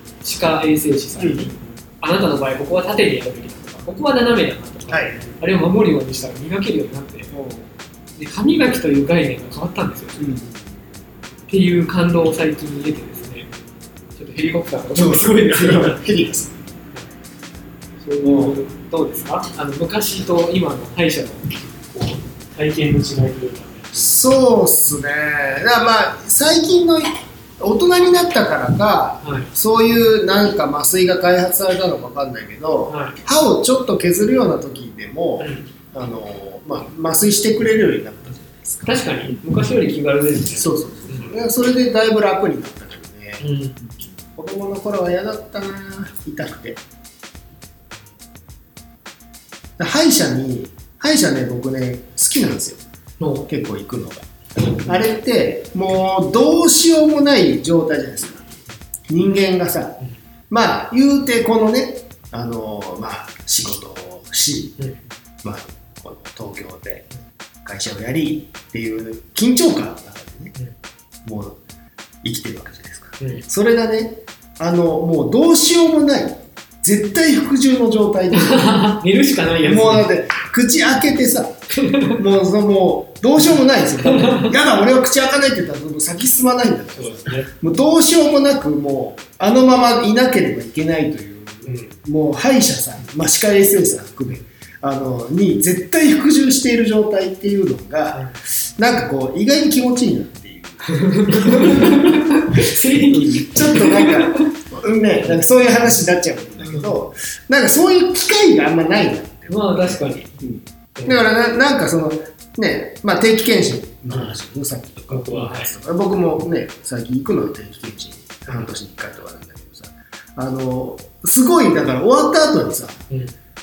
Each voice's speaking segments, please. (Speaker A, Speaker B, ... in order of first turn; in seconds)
Speaker A: 0.2-7.3, 8.2-10.4, 11.5-13.5, 14.2-16.0, 18.0-24.0, 29.2-29.5, 32.9-33.2, 35.4-35.7, 38.8-41.3, 43.4-43.8, 53.2-53.5, 78.3-80.1, 81.8-82.2, 84.0-84.5, 87.0-87.5, 91.7-91.9, 100.8-104.5, 106.6-106.9, 109.5-110.3, 111.0-111.2, 115.1-115.7
Speaker B: 1.2-1.6, 4.9-5.3, 7.3-7.7, 10.2-10.6, 14.9-16.5, 18.2-18.6, 23.9-39.1, 40.5-43.5, 44.4-46.8, 49.8-52.8, 53.5-58.5, 59.1-60.0, 60.5-64.8, 65.4-67.1, 67.6-70.5, 71.2-71.6, 72.2-78.8, 79.6-81.5, 82.1-123.0